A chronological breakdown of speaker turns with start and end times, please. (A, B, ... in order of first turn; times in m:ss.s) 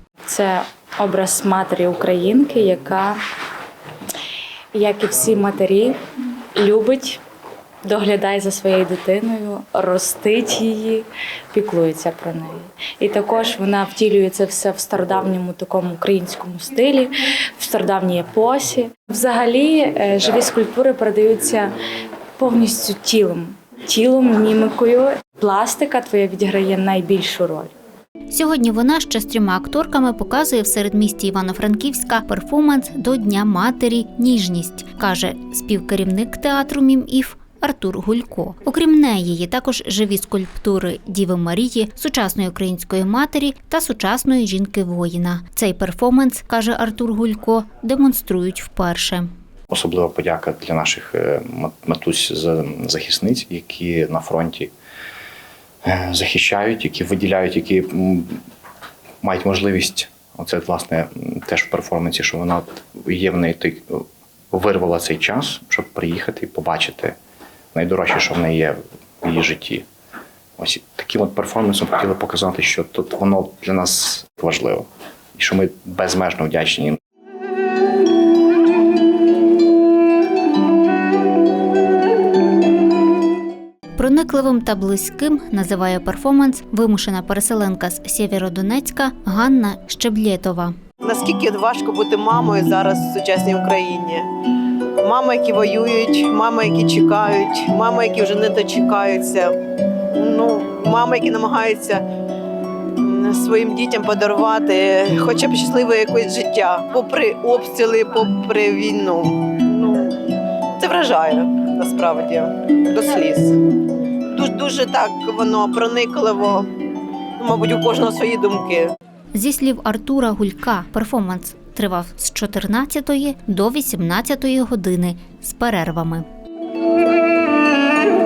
0:00.3-0:03.2 A
0:04.8-0:05.9 A
0:06.6-0:07.2 A
0:07.8-0:21.7 A
0:22.4-0:27.7 A
0:28.3-0:49.3 B
0:49.7-0:54.7 C
0:55.8-0:58.4 C
0:59.2-1:07.2 C
1:07.7-1:09.8 C
1:10.6-1:17.0 C
1:24.0-1:30.8 B
1:31.0-1:34.3 D
1:35.0-1:39.6 D
1:40.1-1:42.0 D
1:43.0-1:53.6 D
1:54.3-1:56.7 D
1:57.4-1:58.9 D
1:59.3-2:06.3 B